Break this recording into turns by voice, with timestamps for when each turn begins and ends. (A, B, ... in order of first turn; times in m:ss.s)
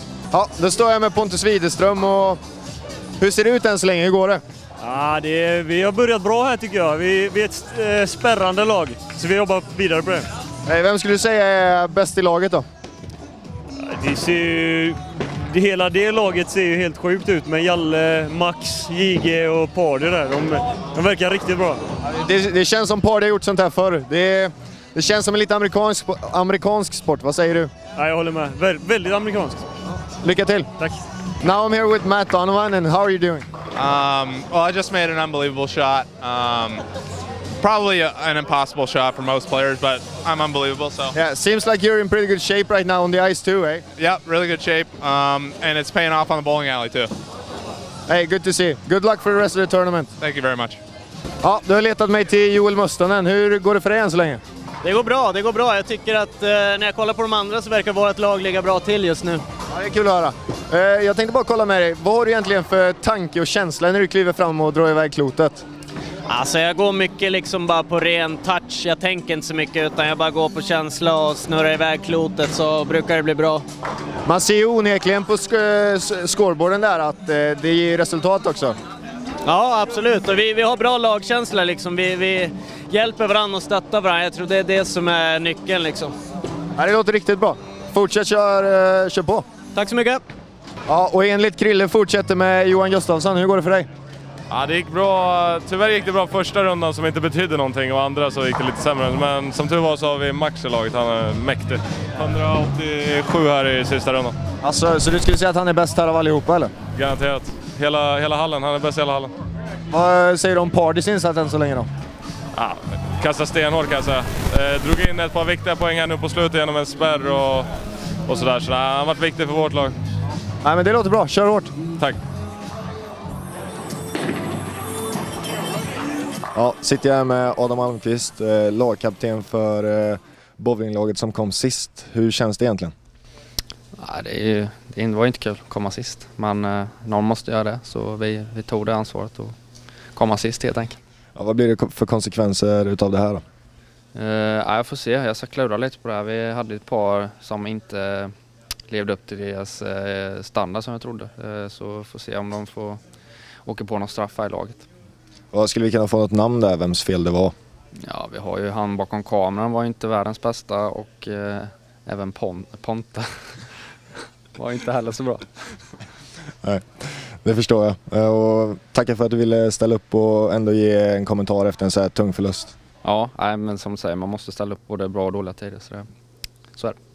0:00.3-0:02.4 A
0:03.2-0:04.4 A
0:04.8-0:10.2 B
0:10.7-0:12.6 A
0:13.8-0:15.0 B
0:15.5-0:21.8 B
0:22.1-0:27.7 A
0:28.0-0:29.6 B
0:30.2-0:30.7 A
0:31.4-0:33.5 A
0:33.8-0:36.8 C
0:37.6-0:41.1 C
0:41.1-0:43.8 A
0:44.0-0:47.1 C
0:48.1-0:50.1 A
0:50.2-0:50.8 C
0:51.4-0:54.4 A
0:54.8-0:59.4 D
0:59.7-1:05.6 A
1:06.3-1:13.7 D
1:14.2-1:18.8 A
1:19.4-1:26.1 D
1:26.8-1:29.4 A
1:29.7-1:30.2 D
1:30.9-1:33.9 A
1:34.5-1:44.3 E
1:44.6-1:46.7 A
1:46.9-1:49.3 E
1:49.9-1:51.9 A
1:52.5-1:57.7 E
1:58.2-2:00.0 E
2:00.6-2:01.7 A
2:06.6-2:12.9 A
2:14.0-2:19.6 F
2:20.2-2:21.0 F
2:21.4-2:23.4 A
2:24.2-2:28.3 F
2:28.9-2:33.0 F
2:33.6-2:34.9 F
2:35.5-2:37.5 A
2:38.1-2:43.9 F
2:44.6-2:45.5 F
2:47.4-2:52.7 A
2:53.0-2:56.1 F